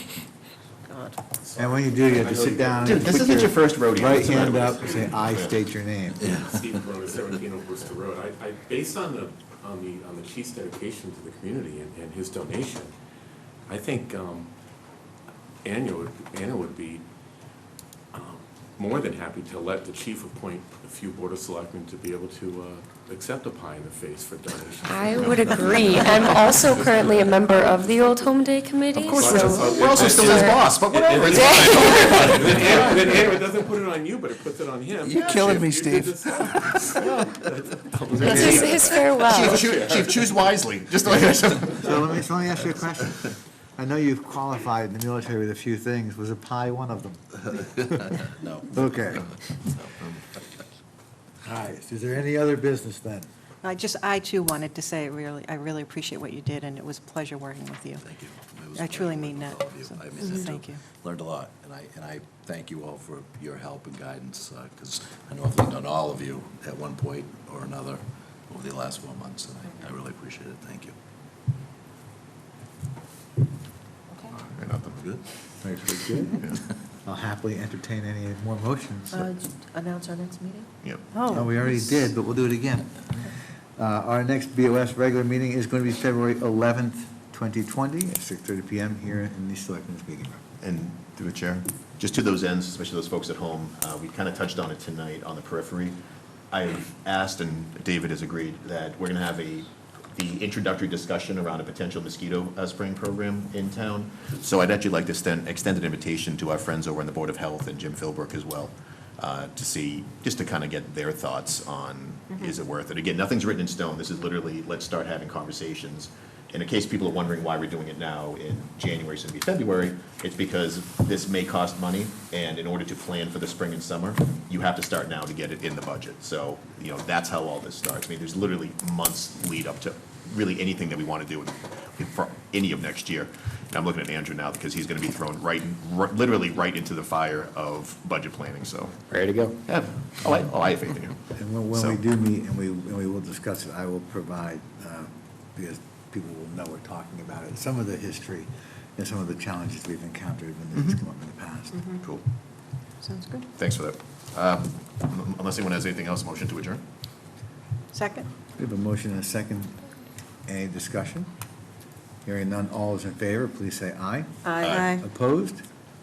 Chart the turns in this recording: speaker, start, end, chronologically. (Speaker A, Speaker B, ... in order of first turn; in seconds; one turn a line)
Speaker A: 0.9-1.2
Speaker B: 1.4-3.2
Speaker C: 1.6-6.3
Speaker D: 2.8-5.6
Speaker B: 4.2-5.4
Speaker B: 6.2-12.9
Speaker B: 13.7-14.5
Speaker B: 15.6-17.0
Speaker B: 18.1-28.2
Speaker E: 24.9-30.7
Speaker B: 28.9-40.2
Speaker D: 29.1-33.2
Speaker E: 31.3-32.6
Speaker C: 35.0-36.5
Speaker D: 38.2-42.2
Speaker E: 38.2-39.6
Speaker C: 38.3-38.7
Speaker C: 41.7-48.2
Speaker F: 47.9-50.1
Speaker C: 48.7-49.3
Speaker C: 51.4-53.3
Speaker A: 53.6-58.0
Speaker F: 58.0-70.9
Speaker A: 58.7-60.8
Speaker D: 74.3-75.0
Speaker C: 75.6-76.5
Speaker C: 77.0-79.2
Speaker A: 79.1-81.6
Speaker C: 81.3-90.4
Speaker D: 90.6-96.0
Speaker D: 96.5-142.0
Speaker C: 141.3-151.8
Speaker A: 151.7-152.0
Speaker A: 153.0-153.5
Speaker D: 153.6-156.8
Speaker A: 157.9-158.3
Speaker C: 158.6-159.8
Speaker C: 160.5-161.3
Speaker C: 162.2-165.6
Speaker A: 164.4-165.1